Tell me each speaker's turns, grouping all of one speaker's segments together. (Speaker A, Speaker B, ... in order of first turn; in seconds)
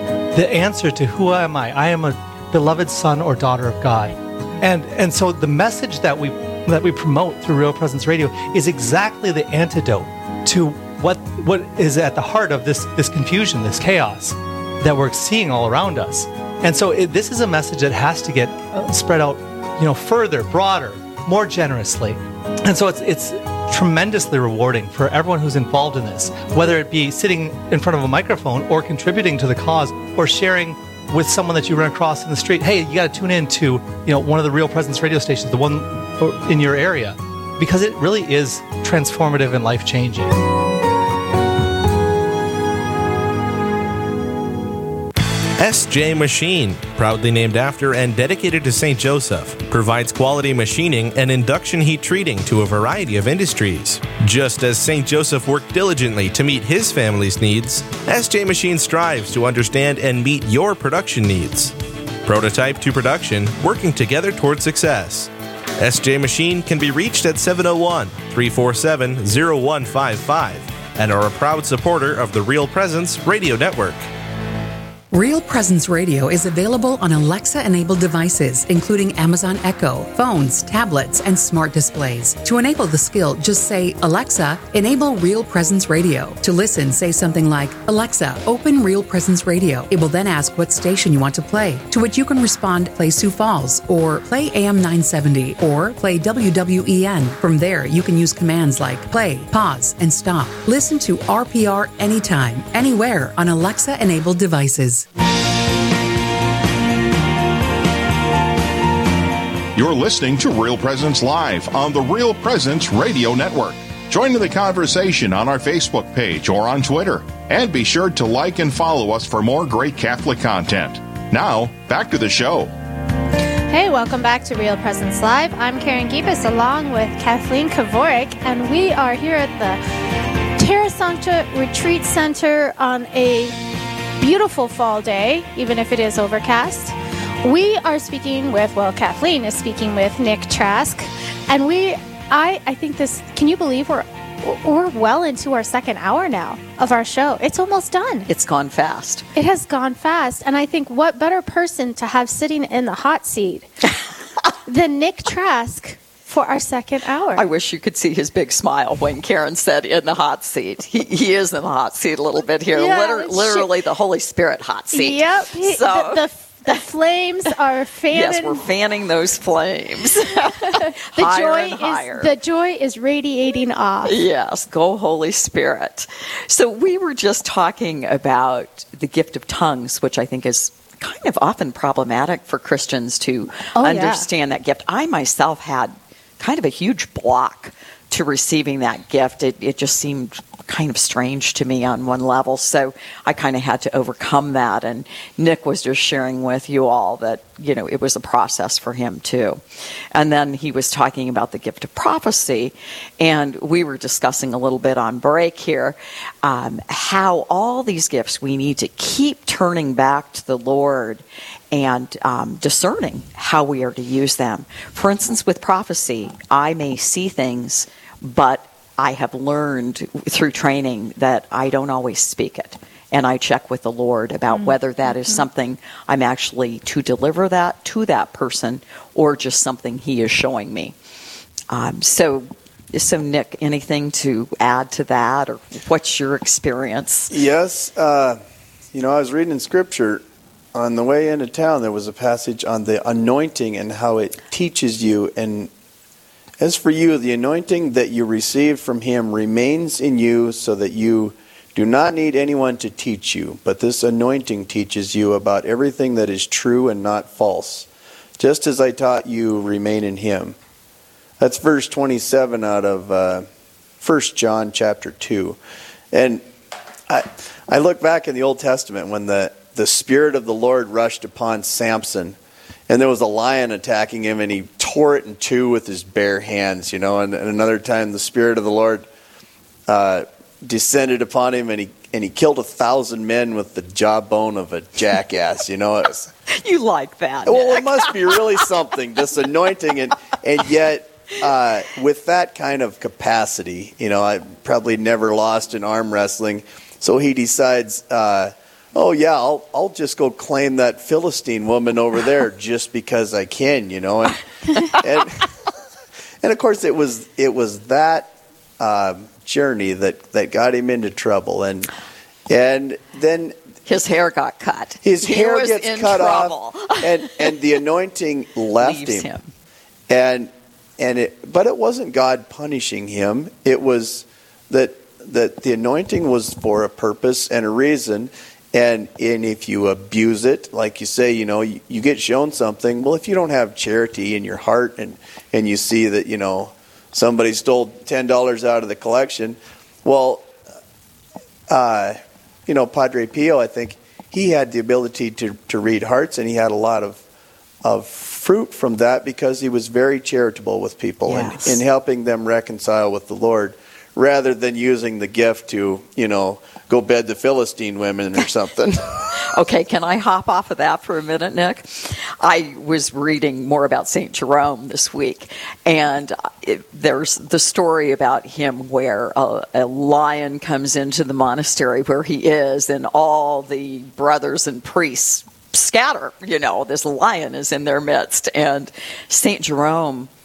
Speaker A: 0.3-40.4
Speaker B: 45.6-74.0
Speaker C: 75.1-105.1
Speaker D: 109.7-122.7
Speaker E: 123.7-129.8, 130.6-133.6, 134.2-148.3, 149.3-153.7, 154.7-157.4, 162.7-163.7, 164.9-168.7, 170.6-174.2, 183.8-184.2
Speaker F: 148.3-149.2, 157.3-166.2, 168.1-172.3, 174.0-199.6, 200.1-230.9, 231.7-237.3, 286.5-288.3, 313.9-317.5, 318.8-319.5, 351.3-351.8, 359.3-380.3
Speaker G: 237.3-238.4, 238.9-245.7, 246.6-257.9, 258.4-260.6, 261.4-263.4, 264.0-265.6, 266.1-266.4, 267.1-272.4, 272.9-279.1, 279.9-286.3, 287.4-305.5, 306.4-311.9, 312.5-313.6, 315.0-319.3, 320.1-340.5, 341.7-347.2, 347.8-359.0